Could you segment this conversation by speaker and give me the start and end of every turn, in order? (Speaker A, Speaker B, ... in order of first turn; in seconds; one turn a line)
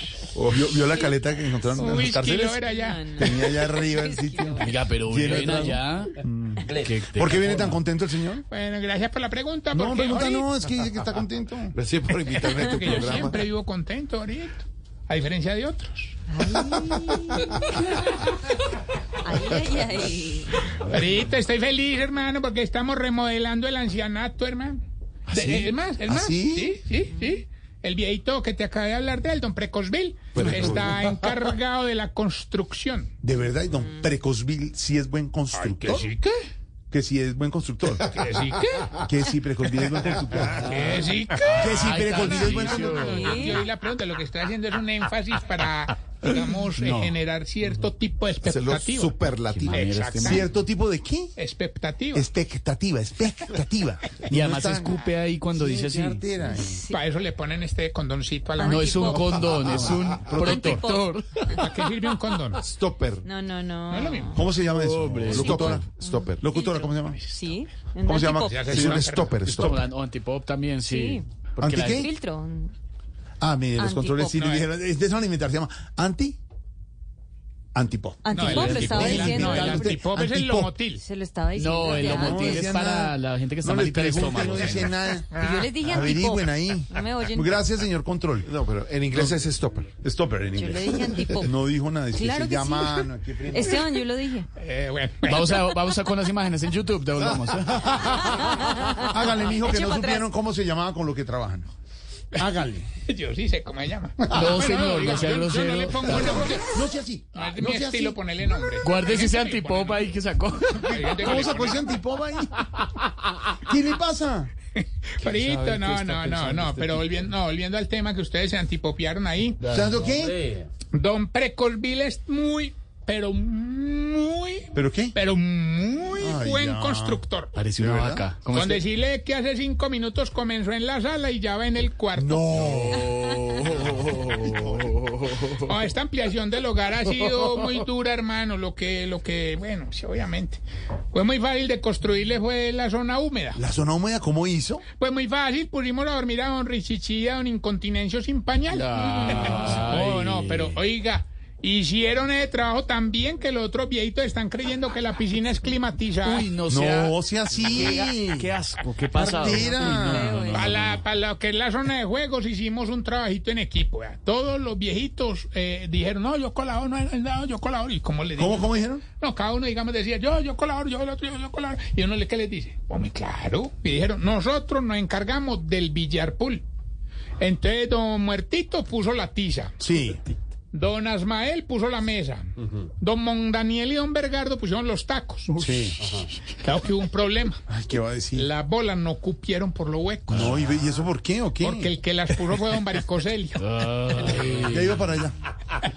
Speaker A: 0.4-2.6
Speaker B: 0.4-0.8
Speaker C: 1.8-3.1
Speaker D: 2.6-4.8
Speaker A: 3.2-8.4
Speaker E: 4.6-6.1
Speaker B: 6.7-7.7
Speaker E: 6.7-7.8
Speaker C: 8.5-10.5
Speaker A: 9.7-11.8
Speaker B: 11.7-13.3
Speaker C: 12.3-16.1
Speaker D: 16.3-17.8
Speaker D: 19.2-20.6
Speaker C: 20.8-24.8
Speaker A: 25.3-26.8
Speaker C: 25.3-33.1
Speaker A: 30.3-31.1
Speaker A: 33.2-36.1
Speaker C: 35.5-36.3
Speaker A: 36.9-38.1
Speaker C: 38.1-39.1
Speaker A: 39.0-41.0
Speaker E: 40.5-43.6
Speaker C: 40.6-50.5
Speaker A: 41.6-43.0
Speaker D: 43.1-43.6
Speaker E: 46.7-47.1
Speaker A: 48.5-51.4
Speaker E: 49.5-50.4
Speaker C: 51.4-52.3
Speaker A: 52.1-55.0
Speaker E: 54.3-56.3
Speaker A: 55.5-56.8
Speaker D: 56.5-57.0
Speaker C: 56.9-59.5
Speaker D: 58.6-61.5
Speaker E: 58.6-61.5
Speaker A: 59.5-60.8
Speaker C: 61.5-62.6
Speaker B: 62.8-63.2
Speaker D: 63.2-64.4
Speaker C: 63.9-64.4
Speaker A: 64.3-67.2
Speaker E: 64.6-65.9
Speaker B: 65.1-66.4
Speaker D: 65.4-68.8
Speaker A: 68.0-69.8
Speaker C: 68.4-69.4
Speaker B: 68.7-69.2
Speaker E: 69.2-72.1
Speaker D: 70.8-71.2
Speaker A: 71.6-72.1
Speaker D: 71.9-72.7
Speaker A: 73.4-76.4
Speaker D: 73.8-74.5
Speaker C: 74.3-74.7
Speaker A: 77.7-80.7
Speaker D: 78.2-80.0
Speaker C: 78.3-81.0
Speaker E: 78.4-79.6
Speaker D: 80.8-82.7
Speaker E: 81.5-84.9
Speaker A: 81.9-88.5
Speaker D: 85.3-87.6
Speaker B: 88.5-89.9
Speaker A: 89.1-93.8
Speaker D: 90.5-94.5
Speaker C: 94.6-95.6
Speaker E: 95.3-99.0
Speaker D: 98.2-100.3
Speaker A: 99.0-101.7
Speaker A: 102.4-102.9
Speaker C: 103.1-106.7
Speaker A: 104.3-104.6
Speaker E: 104.3-106.5
Speaker A: 106.1-108.2
Speaker C: 107.3-110.1
Speaker E: 108.8-111.4
Speaker A: 110.8-112.5
Speaker C: 110.9-111.9
Speaker A: 113.6-114.5
Speaker C: 114.8-119.6
Speaker E: 115.3-116.1
Speaker B: 116.2-116.7
Speaker E: 119.6-119.9
Speaker A: 119.7-120.5
Speaker B: 120.0-120.7
Speaker C: 120.9-127.5
Speaker A: 124.7-125.2
Speaker A: 126.2-127.2
Speaker E: 127.5-128.8
Speaker A: 127.8-128.3
Speaker C: 128.5-132.5
Speaker A: 132.1-133.1
Speaker E: 132.5-135.7
Speaker C: 135.7-140.6
Speaker C: 141.1-143.6
Speaker A: 143.6-144.8
Speaker C: 145.0-156.5
Speaker E: 148.7-150.8
Speaker E: 156.2-161.0
Speaker A: 156.7-158.5
Speaker A: 159.1-160.4
Speaker D: 159.4-160.6
Speaker C: 160.5-176.6
Speaker A: 168.3-169.0
Speaker C: 177.4-179.7
Speaker A: 179.8-180.2
Speaker C: 180.7-182.5
Speaker C: 183.0-185.6
Speaker E: 185.5-186.2
Speaker C: 186.6-187.6
Speaker A: 187.7-188.5
Speaker C: 188.3-190.6
Speaker E: 190.3-190.7
Speaker A: 190.3-191.9
Speaker C: 191.6-194.7
Speaker E: 193.6-195.1
Speaker A: 194.4-195.3